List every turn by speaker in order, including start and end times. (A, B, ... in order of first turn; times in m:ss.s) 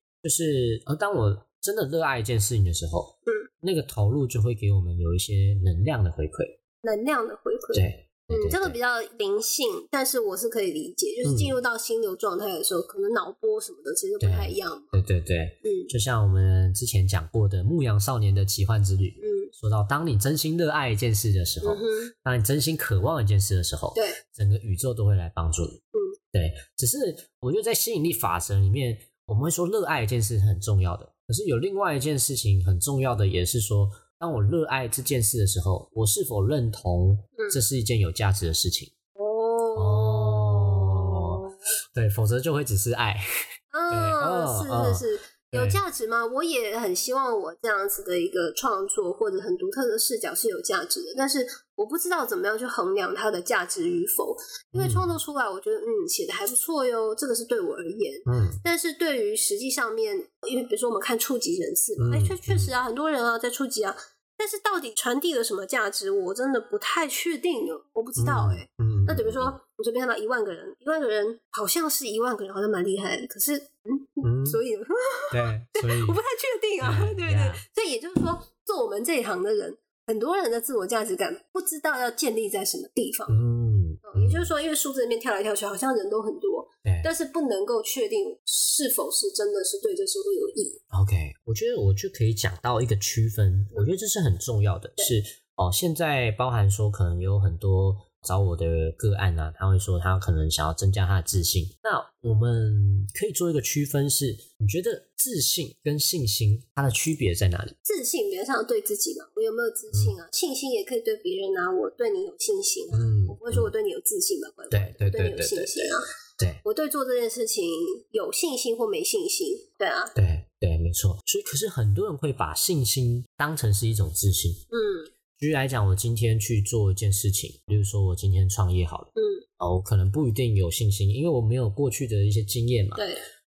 0:00.2-0:06.6 A
0:06.8-0:15.0 B
0:07.7-0:08.8 A
0:11.2-0:11.6 A
0:14.2-0:25.8 A
0:15.6-0:15.9 B
0:19.2-0:19.5 B
0:21.6-0:22.1 B
0:26.3-0:38.9 A
0:37.4-0:37.6 B
0:39.2-0:41.6 B
0:39.8-0:43.2 A
0:43.7-1:23.4 B
0:43.9-0:45.8 A
0:54.7-0:55.2 A
0:58.3-0:58.6 A
1:02.0-1:02.7 A
1:08.2-1:09.6 A
1:14.2-1:14.6 A
1:15.3-1:16.2 A
1:16.8-1:17.6 A
1:23.3-1:24.5 A
1:24.0-1:30.8 B
1:26.8-1:27.1 A
1:30.9-1:47.8 A
1:47.8-1:56.0 B
1:52.9-1:53.7 A
1:54.7-1:56.6 A
1:56.6-2:00.1 B
2:00.2-2:04.6 A
2:04.7-2:05.1 B
2:05.4-2:13.0 A
2:09.2-2:09.4 B
2:13.0-2:13.2 B